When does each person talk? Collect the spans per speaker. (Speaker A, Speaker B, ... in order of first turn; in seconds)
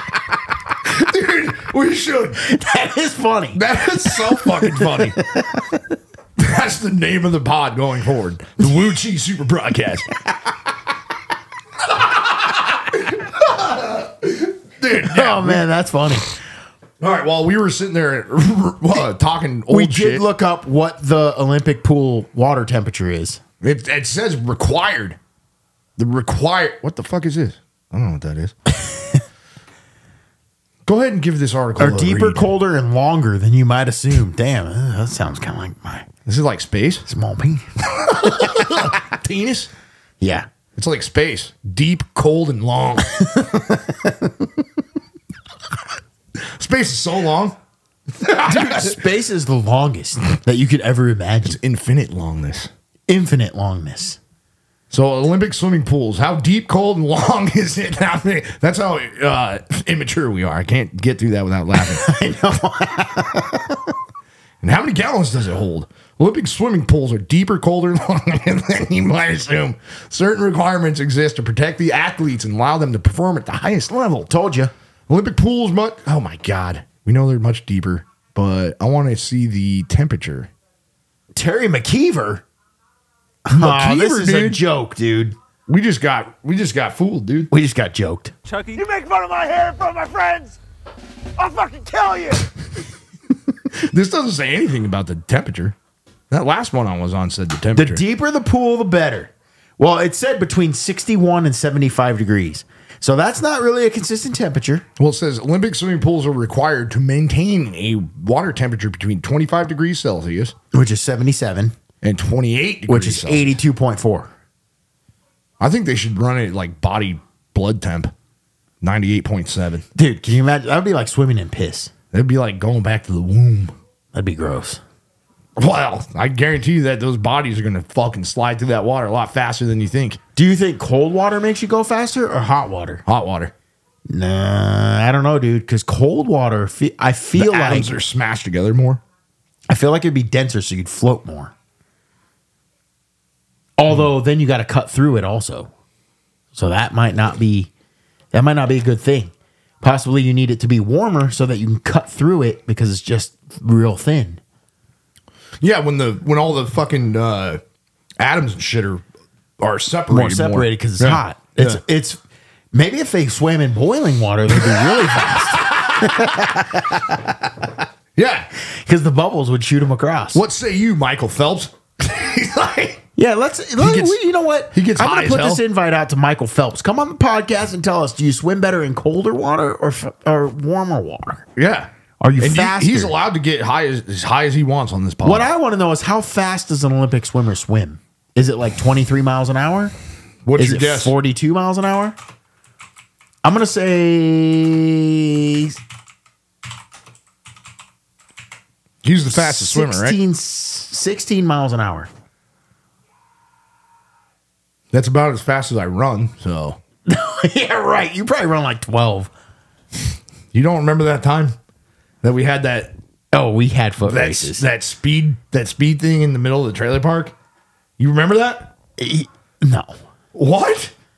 Speaker A: 0.8-2.4, 3.5-5.2, 6.4-10.1, 11.9-15.6, 17.0-20.2, 23.6-25.2, 26.0-28.6, 30.9-32.5, 36.3-37.1, 37.9-39.7, 40.8-43.1, 46.6-47.6, 48.2-49.0, 51.5-52.7, 54.9-62.1, 64.6-74.3, 75.1-80.5, 83.5-84.6, 85.7-87.5, 93.7-95.8, 96.3-98.0, 105.0-110.5, 112.0-113.6, 115.6-118.1, 118.8-119.8, 122.1-123.7, 125.6-130.2, 133.1-133.5, 137.4-139.0, 155.6-157.6, 158.2-159.0, 159.6-161.8, 164.7-166.4, 168.2-168.5, 170.3-173.0, 173.8-174.2, 174.7-175.6, 181.6-185.5, 190.4-191.2, 199.0-200.2, 204.9-206.8, 210.5-211.6, 212.2-212.9, 214.0-217.3, 218.0-218.7, 220.3-220.9
Speaker B: 2.4-5.8, 15.1-16.4, 19.7-23.4, 31.8-36.1, 37.1-38.9, 40.2-40.5, 43.2-44.5, 48.3-51.6, 53.1-54.2, 61.8-63.8, 74.3-74.7, 81.3-82.4, 83.5-85.4, 87.5-88.3, 97.8-104.8, 110.7-111.7, 112.9-114.3, 120.0-121.9, 124.1-124.8, 130.4-133.0, 134.1-137.9, 139.7-141.5, 143.8-145.7, 146.5-147.7, 148.3-154.4, 160.1-162.2, 162.7-167.3, 168.7-170.4, 173.2-181.5, 182.2-183.2, 185.2-189.9, 190.6-192.2, 193.4-195.8, 199.3-202.1, 207.1-209.3, 213.3-214.7, 219.0-219.9
Speaker C: 88.6-90.6, 91.4-92.5